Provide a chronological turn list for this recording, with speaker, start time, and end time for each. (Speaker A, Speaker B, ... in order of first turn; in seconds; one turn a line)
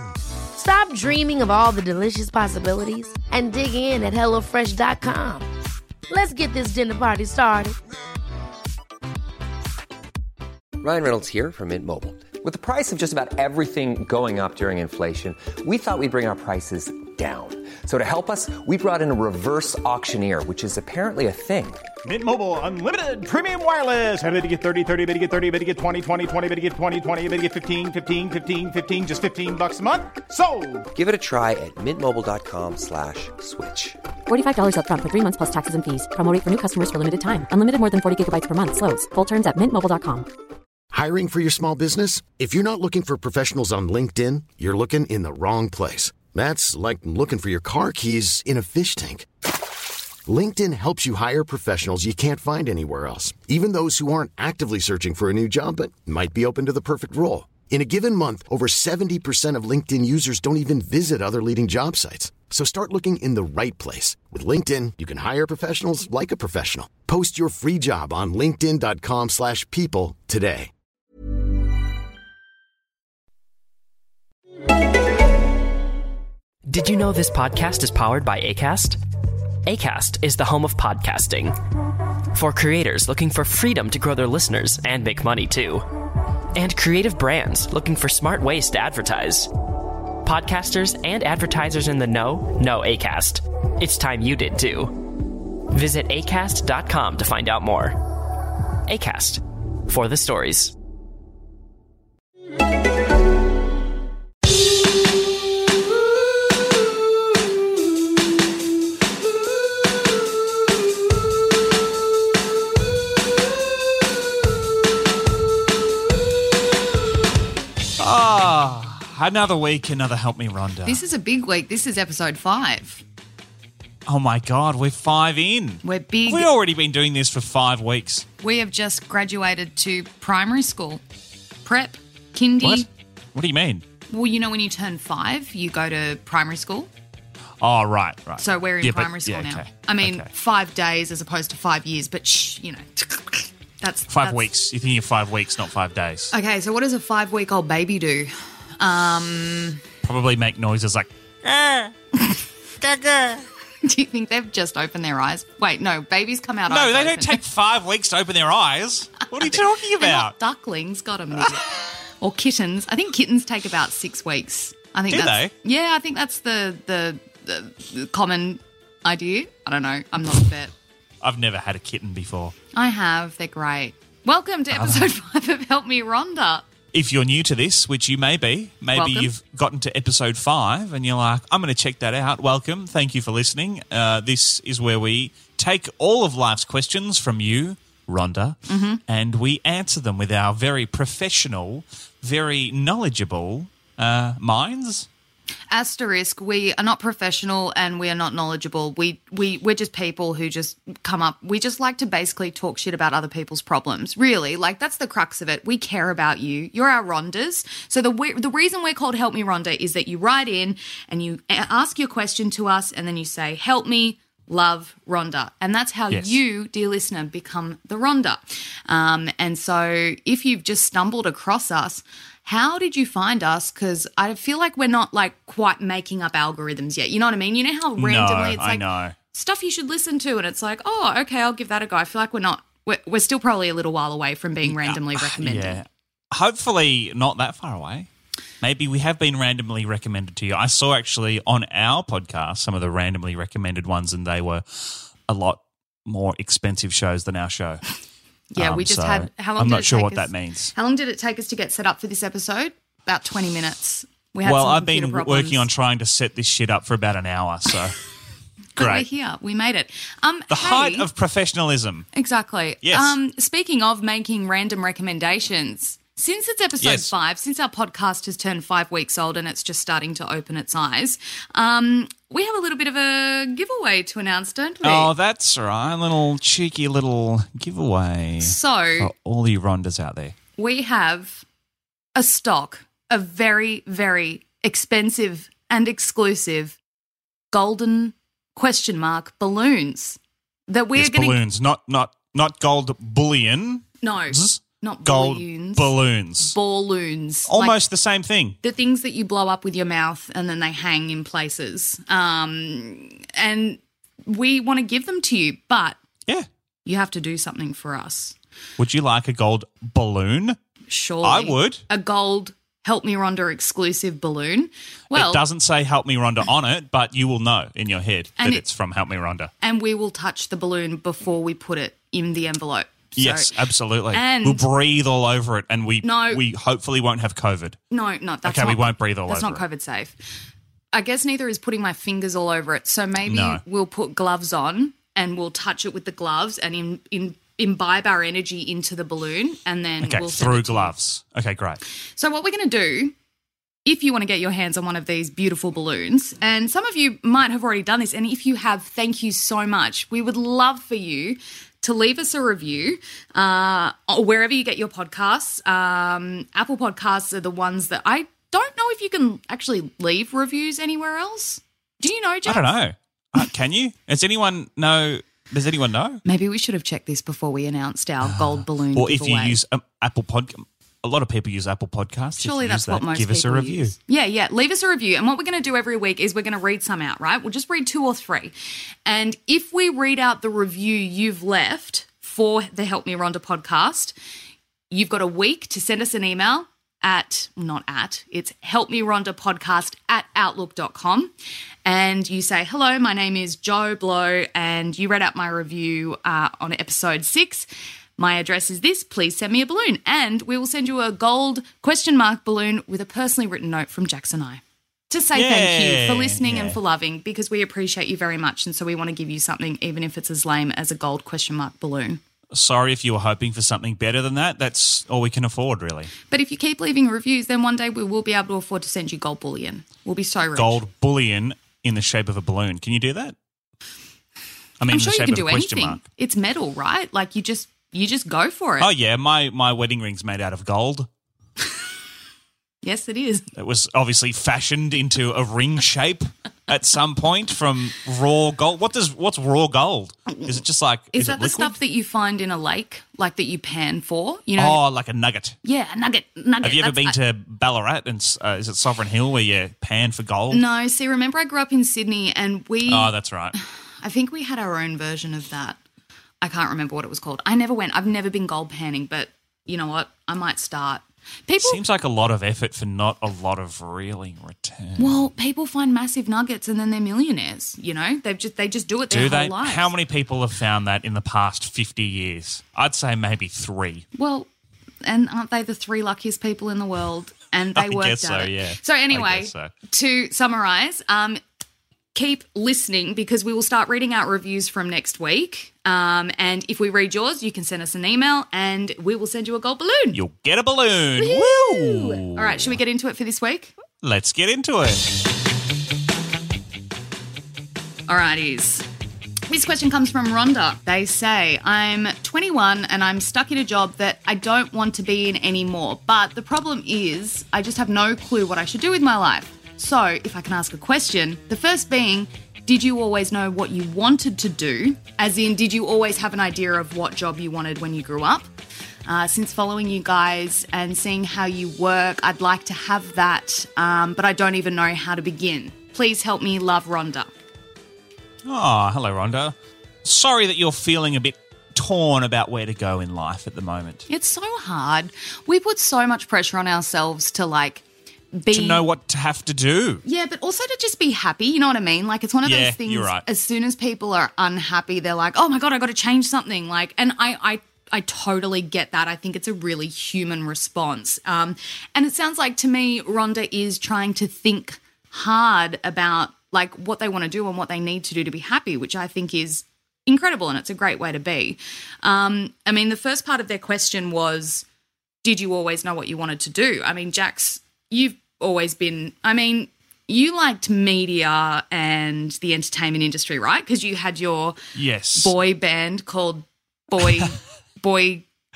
Speaker A: 0.5-5.5
Speaker A: 6.1-7.8
Speaker B: 10.8-21.8
Speaker C: 22.0-30.9
Speaker B: 30.9-34.0
Speaker D: 34.3-40.3
Speaker E: 40.9-49.3
Speaker E: 50.2-70.7
Speaker F: 76.6-79.0
Speaker F: 79.7-81.5
Speaker F: 82.3-85.8
Speaker F: 86.5-89.5
Speaker F: 90.2-95.0
Speaker F: 95.7-98.0
Speaker F: 98.9-100.7
Speaker G: 118.0-121.0
Speaker H: 120.8-123.0
Speaker G: 124.0-128.2
Speaker H: 125.8-126.5
Speaker H: 128.4-131.0
Speaker H: 131.6-132.9
Speaker G: 132.6-133.8
Speaker H: 134.1-136.9
Speaker G: 137.6-140.3
Speaker H: 138.4-144.5
Speaker G: 144.1-146.3
Speaker H: 146.3-149.8
Speaker G: 150.0-151.9
Speaker G: 152.8-153.4
Speaker H: 153.8-157.4
Speaker G: 156.7-160.3
Speaker H: 159.3-161.7
Speaker H: 162.2-170.7
Speaker G: 165.1-165.5
Speaker G: 171.2-172.5
Speaker H: 172.7-176.7
Speaker G: 174.7-175.1
Speaker G: 176.9-195.1
Speaker H: 178.9-179.3
Speaker H: 188.7-189.0
Speaker H: 195.7-235.8
Speaker G: 216.1-216.4
Speaker G: 228.0-229.1
Speaker G: 234.6-238.1
Speaker G: 238.6-247.8
Speaker H: 248.5-255.7
Speaker G: 248.6-250.7
Speaker G: 254.4-258.0
Speaker H: 258.8-261.1
Speaker G: 258.8-259.1
Speaker G: 260.5-262.1
Speaker H: 262.1-275.1
Speaker G: 262.8-263.2
Speaker G: 266.8-267.1
Speaker G: 274.8-280.4
Speaker H: 278.4-279.1
Speaker H: 280.6-281.4
Speaker H: 282.1-286.8
Speaker H: 287.5-291.4
Speaker G: 290.9-296.5
Speaker H: 294.0-297.8
Speaker G: 297.5-298.6
Speaker H: 298.6-306.0
Speaker H: 306.8-308.3
Speaker G: 308.8-310.6
Speaker H: 310.9-315.4
Speaker G: 311.2-311.8
Speaker G: 315.1-319.5
Speaker H: 318.4-318.6
Speaker H: 319.6-323.5
Speaker G: 323.1-327.8
Speaker H: 324.1-324.6
Speaker H: 326.0-326.4
Speaker H: 327.9-330.1
Speaker G: 328.4-329.6
Speaker H: 330.9-340.9
Speaker G: 333.2-333.6
Speaker G: 340.0-341.8
Speaker H: 342.2-343.1
Speaker H: 343.9-362.6
Speaker G: 362.4-366.2
Speaker H: 366.2-369.6
Speaker G: 368.2-373.9
Speaker H: 372.4-378.5
Speaker H: 379.0-384.1
Speaker H: 384.9-391.3
Speaker H: 391.8-412.2
Speaker G: 405.3-406.8
Speaker G: 412.5-416.1
Speaker H: 416.3-420.8
Speaker G: 420.5-423.3
Speaker G: 424.8-426.0
Speaker H: 424.9-428.9
Speaker G: 428.8-431.1
Speaker H: 432.8-433.4
Speaker G: 433.6-441.8
Speaker H: 440.3-440.6
Speaker H: 441.1-444.8
Speaker G: 444.6-445.6
Speaker H: 445.6-447.1
Speaker G: 446.6-450.6
Speaker H: 450.5-453.1
Speaker G: 452.9-453.6
Speaker H: 454.0-455.8
Speaker H: 456.4-461.8
Speaker G: 461.6-465.2
Speaker H: 465.0-469.9
Speaker G: 469.1-474.0
Speaker H: 474.1-474.5
Speaker H: 475.0-481.4
Speaker G: 477.8-479.7
Speaker H: 482.1-490.2
Speaker G: 490.1-492.8
Speaker H: 491.2-493.7
Speaker G: 494.0-495.1
Speaker H: 498.1-498.9
Speaker H: 499.5-518.5
Speaker H: 519.0-527.3
Speaker G: 528.4-534.0
Speaker H: 534.1-538.8
Speaker G: 538.5-540.0
Speaker H: 540.0-564.6
Speaker G: 542.4-543.2
Speaker H: 565.2-574.6
Speaker G: 574.7-575.3
Speaker H: 575.1-578.2